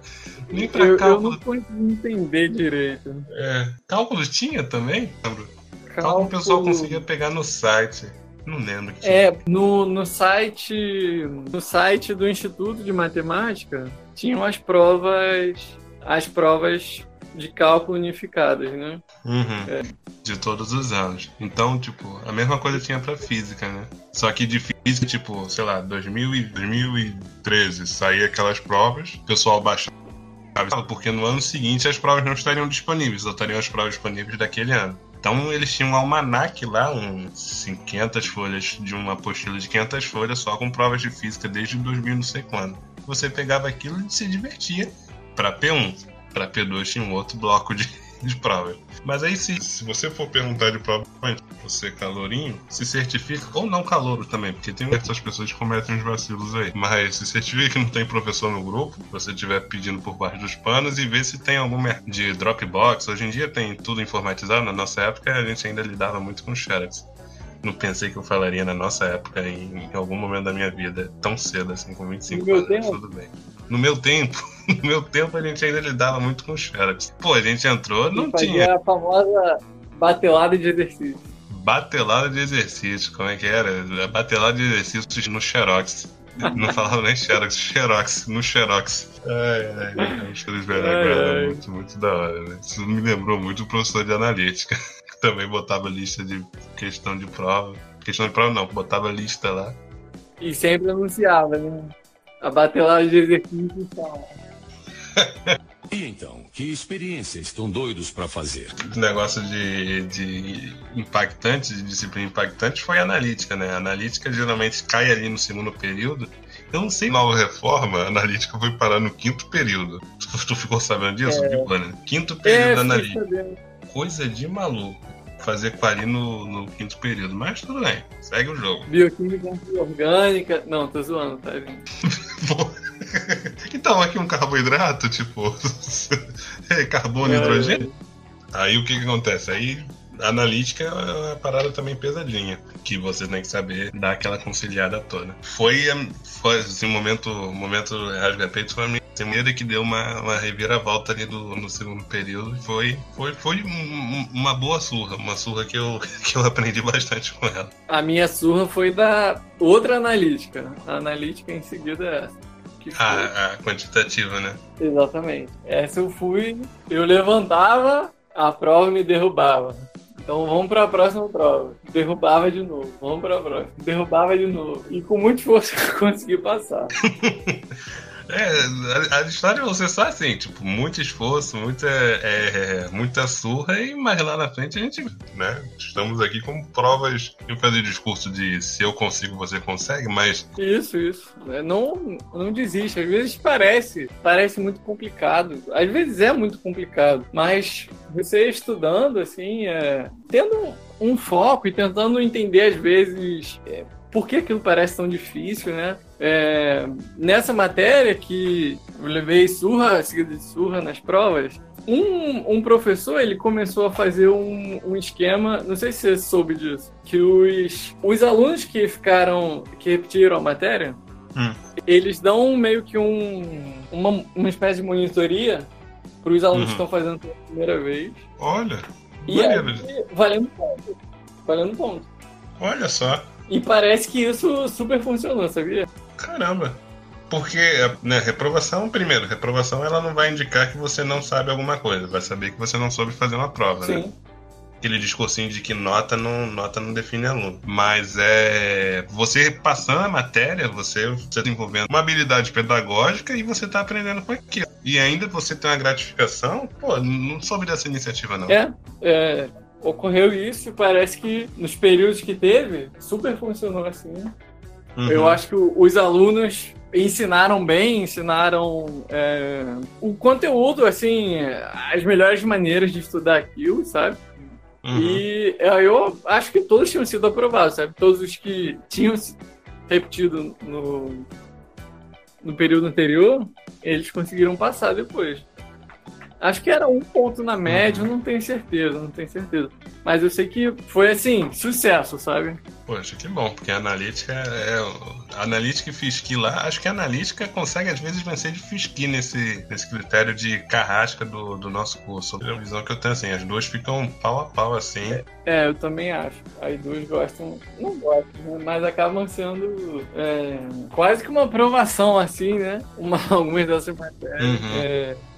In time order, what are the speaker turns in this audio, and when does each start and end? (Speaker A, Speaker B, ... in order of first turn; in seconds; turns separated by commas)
Speaker A: 0.5-1.4, Speaker B: 0.5-3.3, Speaker A: 3.3-9.4, Speaker B: 5.9-7.0, Speaker B: 9.0-19.0, Speaker A: 19.2-29.9, Speaker A: 30.6-67.1, Speaker A: 67.6-78.7, Speaker B: 72.3-73.0, Speaker B: 78.1-81.3, Speaker A: 81.5-99.8, Speaker B: 86.4-86.7, Speaker B: 90.0-90.2, Speaker B: 90.7-91.6, Speaker B: 100.4-104.4, Speaker A: 105.2-105.5, Speaker C: 105.9-108.8, Speaker A: 108.8-123.2, Speaker B: 121.3-121.7, Speaker B: 122.5-123.6, Speaker A: 123.9-128.9, Speaker B: 128.9-131.8, Speaker A: 132.1-137.9, Speaker B: 137.2-137.9, Speaker A: 138.5-157.7, Speaker B: 157.9-163.3, Speaker A: 162.9-164.6, Speaker B: 164.8-176.9, Speaker A: 177.0-177.6, Speaker A: 178.3-190.5, Speaker B: 190.6-221.0, Speaker B: 221.9-225.7, Speaker B: 226.2-228.2, Speaker A: 226.5-226.8, Speaker A: 228.4-229.9, Speaker B: 229.3-232.1, Speaker A: 232.6-233.3, Speaker B: 233.5-235.9, Speaker A: 236.2-244.0, Speaker B: 243.8-244.2, Speaker A: 244.8-258.6, Speaker B: 258.5-264.3, Speaker A: 265.0-265.4, Speaker B: 265.1-274.3, Speaker A: 274.8-275.3, Speaker B: 274.9-279.4, Speaker B: 279.9-281.3, Speaker B: 282.4-285.5, Speaker B: 286.4-292.6, Speaker A: 287.7-288.1, Speaker A: 292.9-305.2, Speaker B: 305.1-315.2, Speaker A: 314.4-314.9